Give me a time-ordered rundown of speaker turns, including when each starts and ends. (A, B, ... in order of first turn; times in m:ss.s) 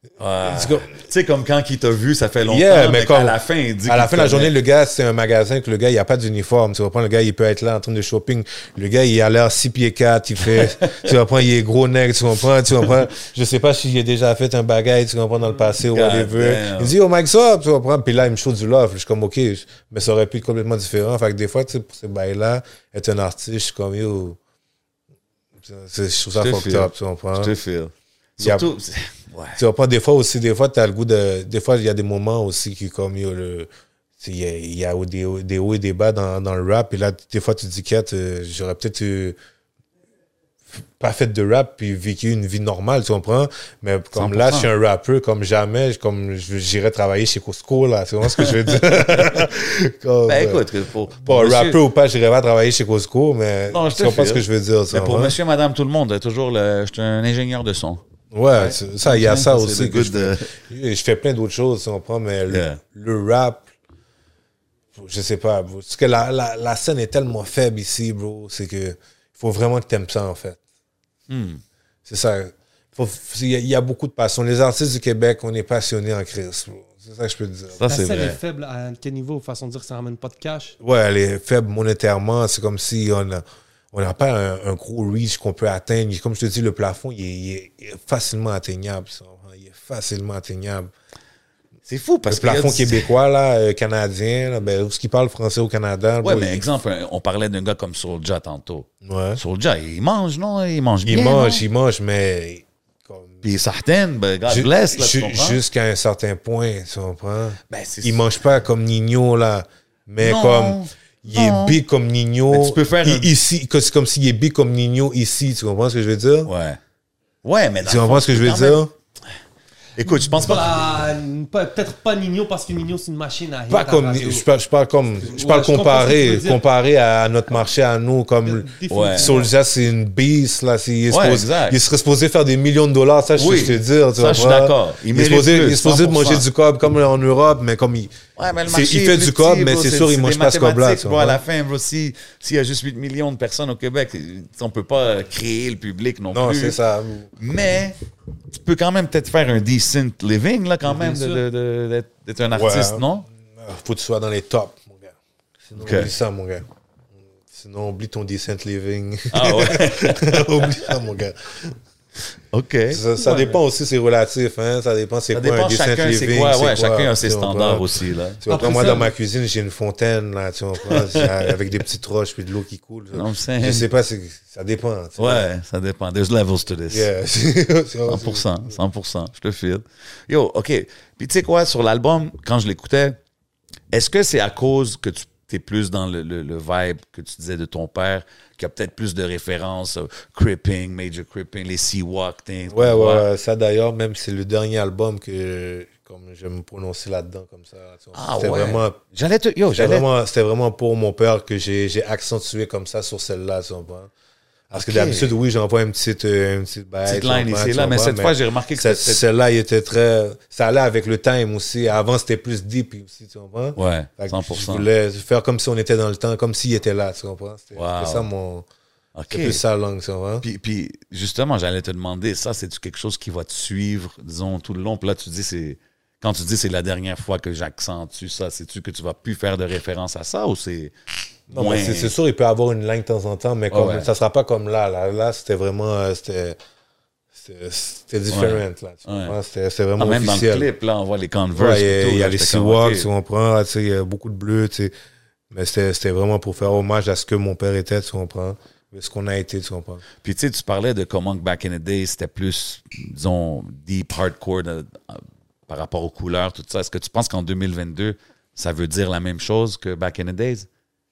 0:00.2-0:04.5 A
0:00.4-0:00.9 B
0:02.4-0:24.4 B
0:10.6-0:11.1 A
0:15.9-0:17.0 A
0:25.6-0:27.5 B
0:26.4-0:29.6 A
0:28.4-0:28.7 B
0:29.6-0:33.7 B
0:34.2-0:39.4 B
0:40.7-0:50.7 B
0:44.2-0:44.7 A
0:48.4-0:49.4 A
0:50.3-0:51.8 A
0:51.2-0:55.4 B
0:53.7-0:58.0 A
0:58.3-1:03.7 B
0:58.6-1:00.5 A
1:02.5-1:02.8 A
1:04.9-1:10.6 B
1:11.3-1:11.6 A
1:12.1-1:17.8 B
1:17.8-1:18.4 A
1:17.9-1:20.8 C
1:20.8-1:30.9 B
1:31.9-1:33.1 A
1:32.3-1:36.6 B
1:36.2-1:41.6 A
1:39.0-1:39.4 B
1:41.0-1:43.5 B
1:43.4-1:45.6 A
1:44.5-1:56.5 B
1:47.7-1:48.3 A
1:50.2-1:51.8 A
1:52.5-1:53.3 A
1:56.5-1:56.8 A
1:57.4-1:58.8 A
1:57.8-1:58.9 B
2:00.0-2:01.0 A
2:00.1-2:04.5 C
2:03.7-2:21.4 B
2:05.2-2:06.6 C
2:08.4-2:09.5 C
2:08.9-2:09.4 A
2:11.1-2:11.8 A
2:13.4-2:16.4 A
2:18.4-2:26.8 A
2:26.3-2:27.3 B
2:27.4-2:28.0 A
2:28.6-2:33.3 A
2:30.8-2:31.4 C
2:32.5-2:36.6 B
2:35.8-2:36.1 A
2:37.2-2:41.8 B
2:39.3-2:40.8 A
2:42.5-2:43.0 A
2:42.9-2:47.9 B
2:43.2-2:43.6 C
2:45.3-2:49.0 A
2:48.4-2:55.5 B
2:48.5-2:49.1 C
2:50.9-2:51.5 A
2:53.1-2:53.9 A
2:55.2-2:57.1 A
2:56.9-2:58.8 B
2:58.1-3:03.2 A
3:03.9-3:13.3 A
3:12.7-3:19.0 B
3:18.2-3:20.1 A
3:19.8-3:24.1 B
3:24.7-3:38.7 B
3:24.8-3:25.3 A
3:27.1-3:29.2 A
3:33.8-3:34.9 A
3:37.8-3:38.3 A
3:39.2-3:39.6 A
3:39.3-3:40.4 B
3:40.4-3:50.9 A
3:51.5-3:52.1 A
3:51.5-3:56.6 B
3:53.7-3:54.1 A
3:57.3-4:00.7 B
3:58.3-3:59.4 A
4:00.0-4:03.1 A
4:01.6-4:04.9 B
4:05.5-4:10.0 B
4:10.2-4:20.7 A